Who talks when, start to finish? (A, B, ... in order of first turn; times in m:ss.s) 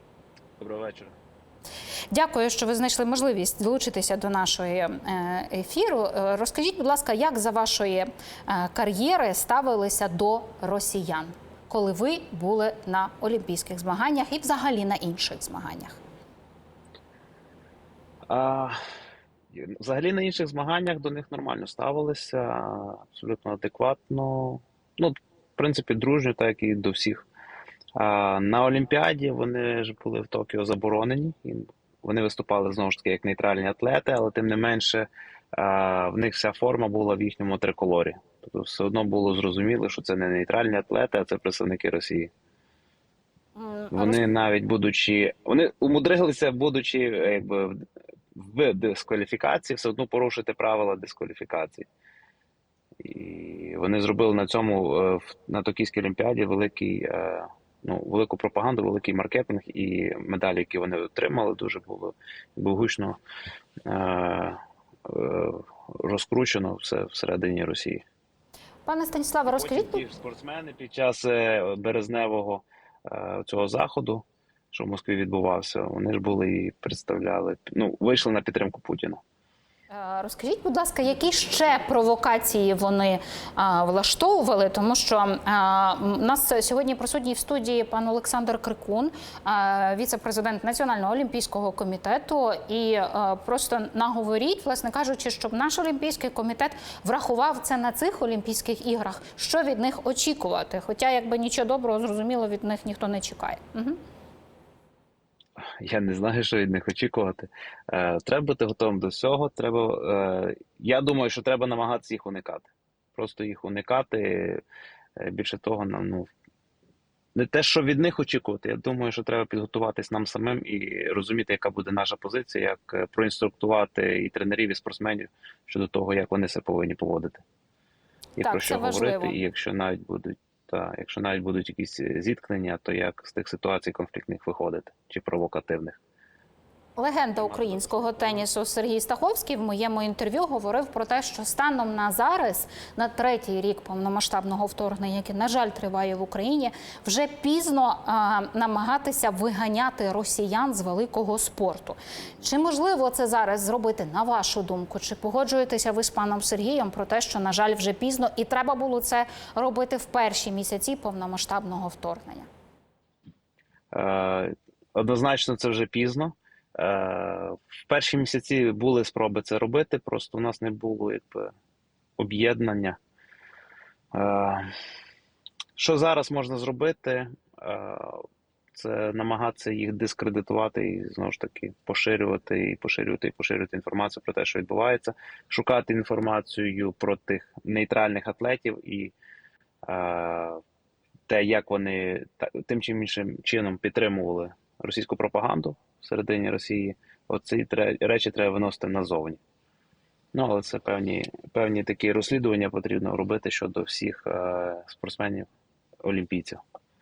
0:00.6-0:01.1 A
0:02.1-0:16.0 B
0:18.3-0:18.8 A
0:19.5-0:27.2 A
0:28.0-0:42.3 A
0:43.6-0:44.2 B
0:43.9-0:51.9 A
0:53.0-1:03.2 A
1:03.8-1:08.0 A
1:08.8-1:10.0 B
1:09.5-1:19.2 A
1:19.9-1:44.0 B
1:45.7-1:54.6 A
1:55.2-1:56.3 A
1:57.3-2:07.4 A
2:08.4-2:16.0 A
2:08.4-2:09.4 B
2:17.0-2:42.5 B
2:17.4-2:18.5 A
2:43.9-2:51.5 A
2:52.2-2:53.0 A
2:54.1-2:54.7 A
2:55.8-3:09.1 A
3:09.9-3:10.6 A
3:11.3-3:19.4 A
3:20.3-3:25.5 A
3:26.0-3:26.6 A